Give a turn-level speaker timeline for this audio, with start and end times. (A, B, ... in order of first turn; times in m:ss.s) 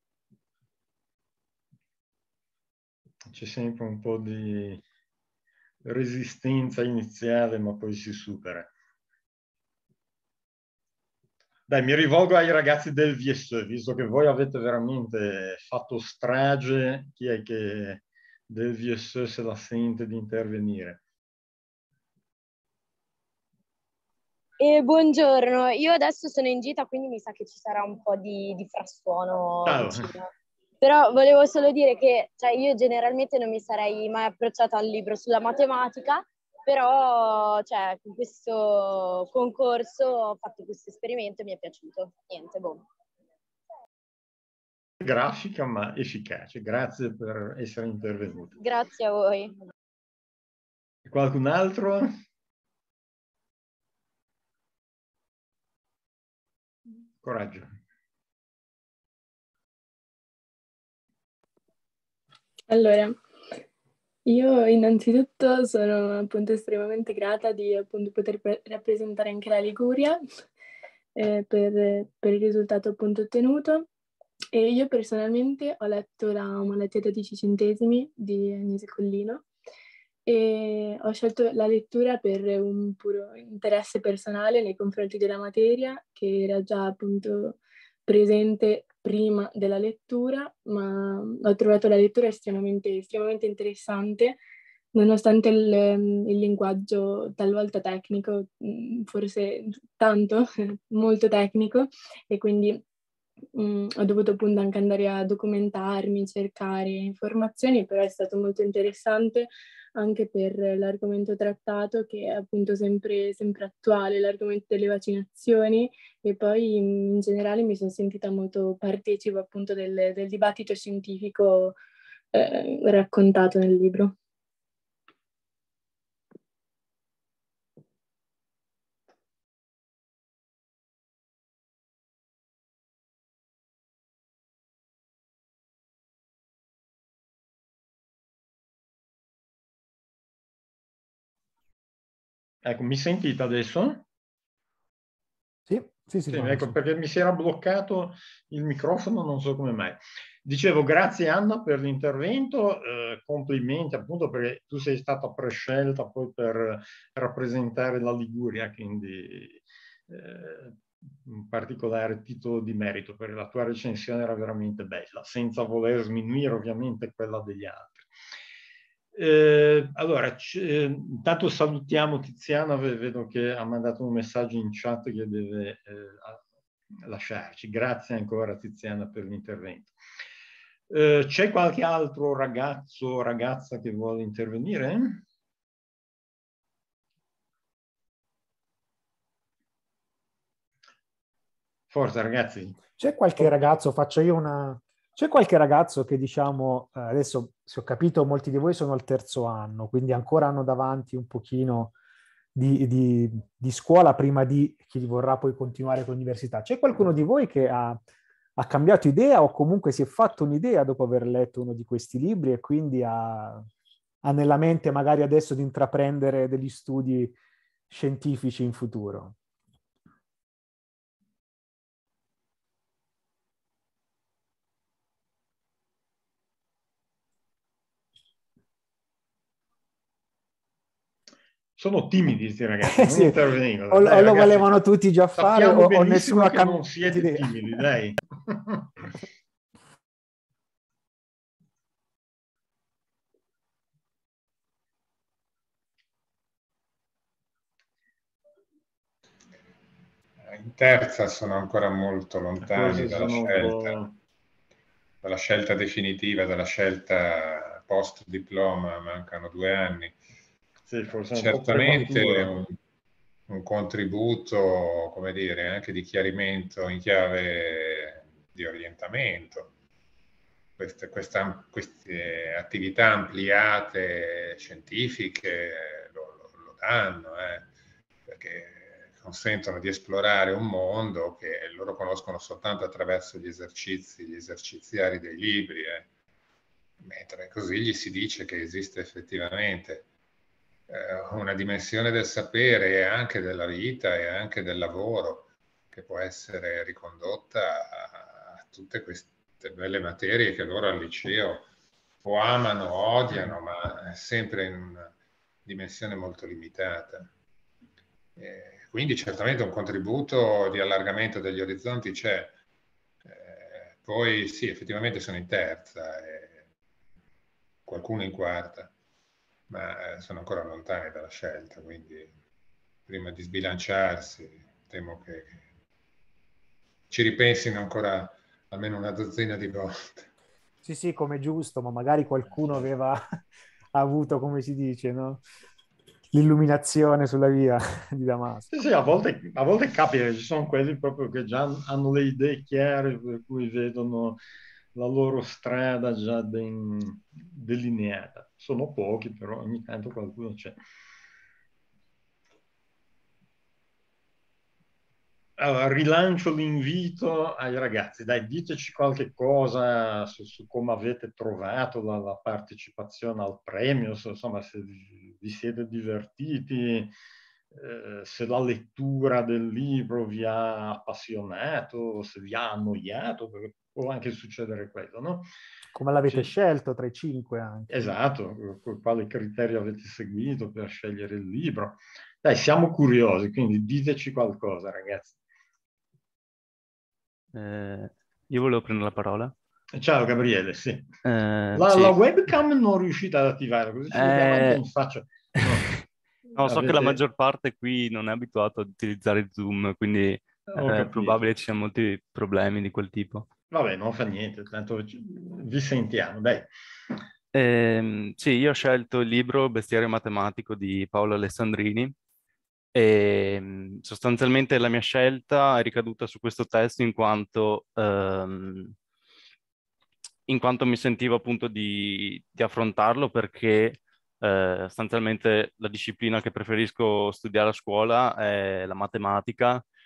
0:03.3-0:04.8 A
0:05.8-0:08.7 A
0:11.7-0:21.0 A
0:24.6-0:30.3 B
0:29.6-0:30.1 A
0:30.8-0:42.8 B
0:45.0-0:48.5 A
0:48.6-0:49.5 B
0:51.0-0:52.1 A
0:57.2-0:57.7 A
1:02.7-1:03.2 C
1:04.2-1:10.2 C
1:11.2-1:13.8 C
1:14.5-1:19.4 C
1:20.2-1:34.4 C
1:34.9-1:42.8 C
1:43.5-2:01.8 C
2:02.3-2:04.2 C
2:22.6-2:24.0 A
2:25.7-2:26.7 D
2:26.3-2:48.1 A
2:49.1-2:56.4 A
2:57.0-2:59.9 A
3:00.9-3:05.2 A
3:11.9-3:12.8 A
3:13.0-3:21.9 D
3:13.4-3:13.6 A
3:22.5-3:28.0 D
3:28.6-3:33.7 D
3:34.2-3:37.3 D
3:37.9-3:39.3 D
3:51.8-3:54.7 A
3:52.8-3:53.4 D
3:53.9-3:57.8 D
3:55.4-3:58.9 A
4:10.5-4:14.0 E
4:12.6-4:14.2 A
4:15.2-4:20.2 E
4:20.9-4:22.6 A
4:21.3-4:22.7 E
4:23.5-4:29.7 E
4:30.8-4:37.7 E
4:38.2-4:46.1 E
4:47.0-4:50.1 E
4:50.9-5:01.7 E
5:02.2-5:05.1 E
5:05.6-5:07.3 E
5:08.4-5:12.6 E
5:13.2-5:16.6 E
5:17.8-5:18.9 E
5:19.7-5:22.3 E
5:23.1-5:25.6 E
5:27.1-5:30.3 E
5:30.8-5:33.2 D
5:33.9-5:35.4 D
5:36.3-5:38.7 D
5:38.7-5:44.4 A
5:44.9-5:50.8 A
5:55.6-6:07.1 A
6:07.7-6:15.5 A
6:15.9-6:17.9 D
6:17.9-6:25.3 A
6:27.5-6:29.5 F
6:29.9-6:31.1 A
6:31.2-6:32.2 F
6:31.7-6:35.8 A
6:34.1-6:34.8 F
6:35.6-6:36.0 F
6:36.6-6:43.5 F
6:36.6-6:37.2 A
6:40.7-6:41.4 A
6:43.7-6:46.7 A
6:47.5-6:52.1 F
6:52.9-6:58.9 F
7:00.5-7:09.8 F